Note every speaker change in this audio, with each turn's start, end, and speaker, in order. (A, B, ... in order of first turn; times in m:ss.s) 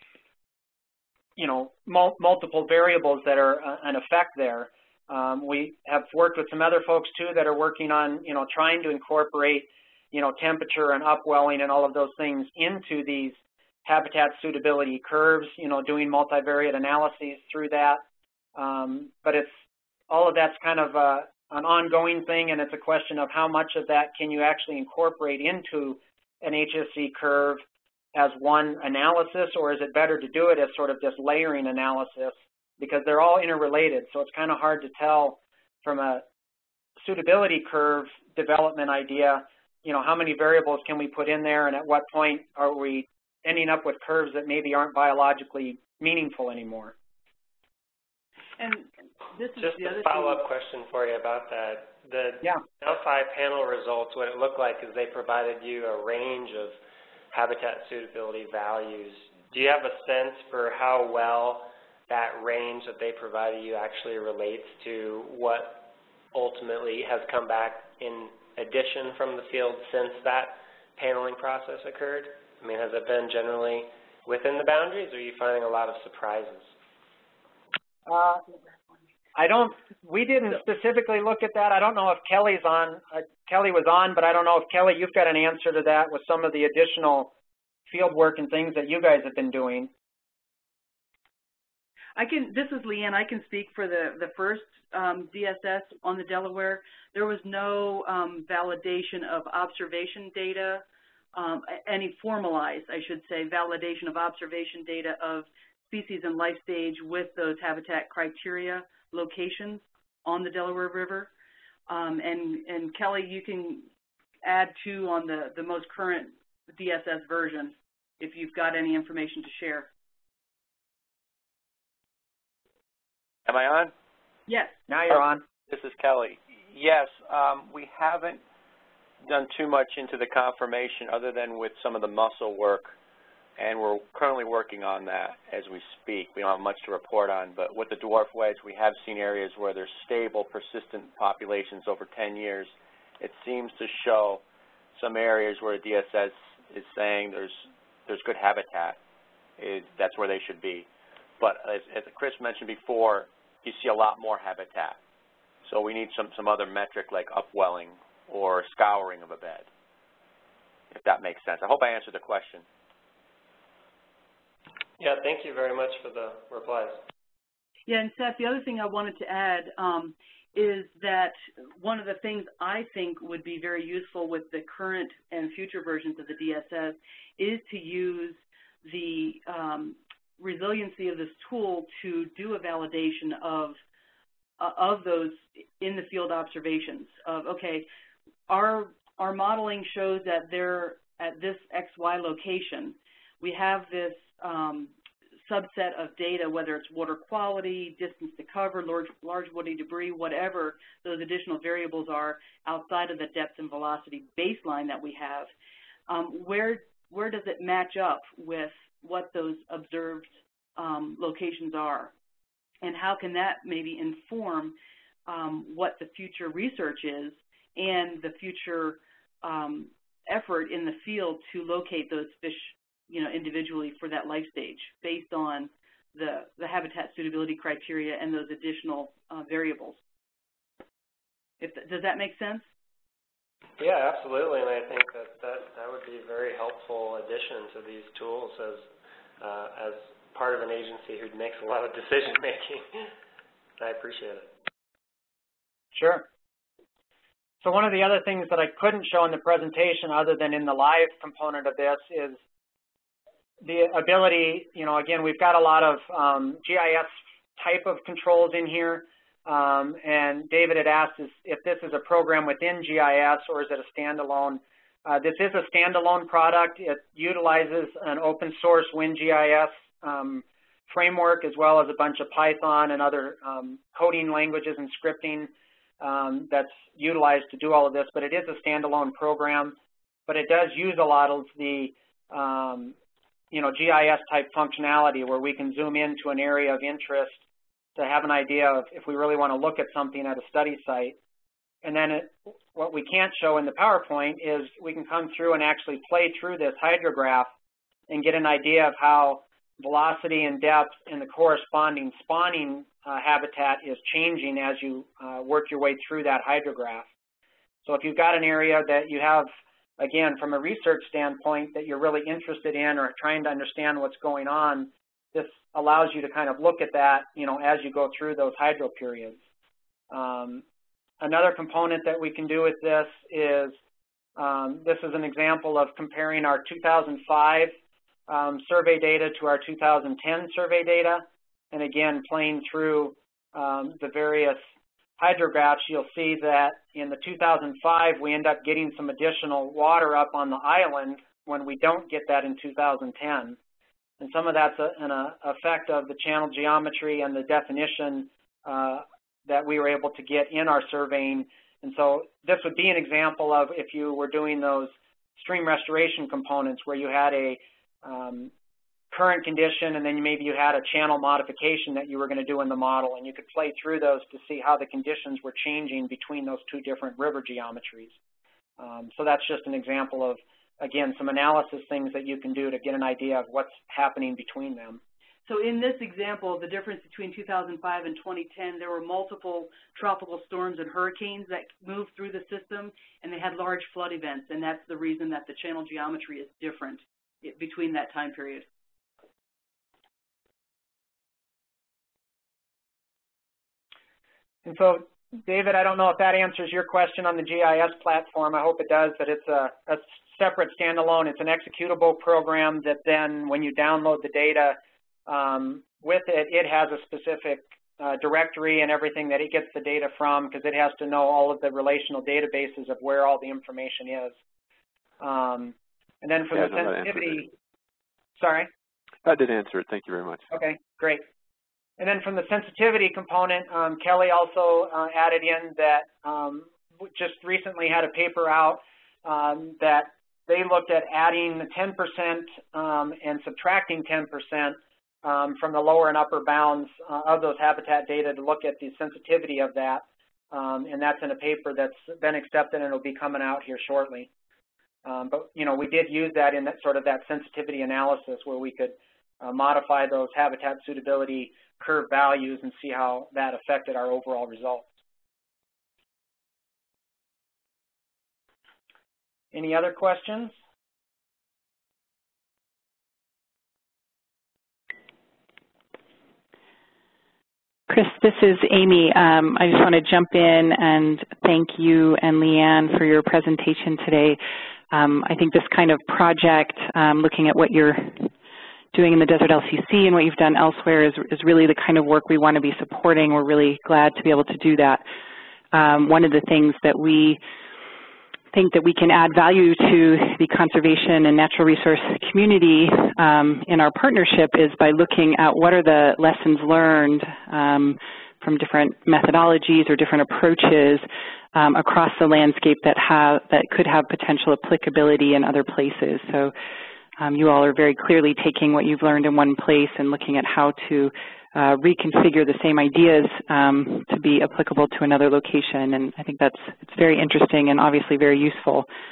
0:01.4-0:18.0 A
0:18.6-0:27.6 A
0:28.1-0:36.2 A
0:37.0-0:47.0 A
0:48.6-0:50.5 B
0:49.6-0:56.8 C
0:57.3-1:16.7 C
1:18.1-1:18.4 A
1:19.4-1:27.3 A
1:27.9-1:29.9 A
1:32.2-1:51.3 B
1:51.9-1:53.9 B
1:54.4-1:59.9 B
2:03.5-2:03.9 D
2:04.5-2:04.8 B
2:04.9-2:05.4 A
2:05.1-2:08.4 D
2:09.3-2:12.9 D
2:13.6-2:24.4 D
2:25.0-2:29.0 D
2:29.6-2:30.9 D
2:31.4-2:35.0 D
2:35.7-2:39.7 D
2:40.9-2:42.6 D
2:45.0-2:47.1 C
2:47.9-3:03.8 B
3:04.6-3:07.9 B
3:08.5-3:25.5 B
3:26.1-3:32.1 B
3:32.8-3:34.8 B
3:35.3-3:50.0 B
3:51.6-3:52.7 B
3:53.8-4:03.1 C
4:03.8-4:04.5 C
4:05.9-4:06.3 A
4:07.6-4:12.4 A
4:13.6-4:43.0 A
4:43.5-4:47.4 A
4:48.0-4:51.2 A
4:51.8-4:57.5 A
4:58.1-5:07.1 A
5:07.8-5:19.4 A
5:20.1-5:20.6 A
5:21.2-5:23.8 A
5:24.4-5:27.7 A
5:28.3-5:34.6 A
5:35.2-5:43.6 A
5:44.2-5:58.5 A
5:59.1-6:08.2 A
6:08.8-6:15.0 A
6:15.5-6:28.7 B
6:34.6-6:54.4 A
6:55.2-6:57.5 A
6:56.5-6:57.5 E
6:58.4-6:58.7 A
6:59.2-7:00.4 E
7:00.5-7:01.2 A
7:02.0-7:24.3 A
7:25.0-7:34.9 A
7:39.5-7:40.6 A
7:47.9-7:58.3 F
7:58.9-8:05.0 F
8:05.7-8:07.4 F
8:08.5-8:26.5 F
8:27.2-8:38.9 F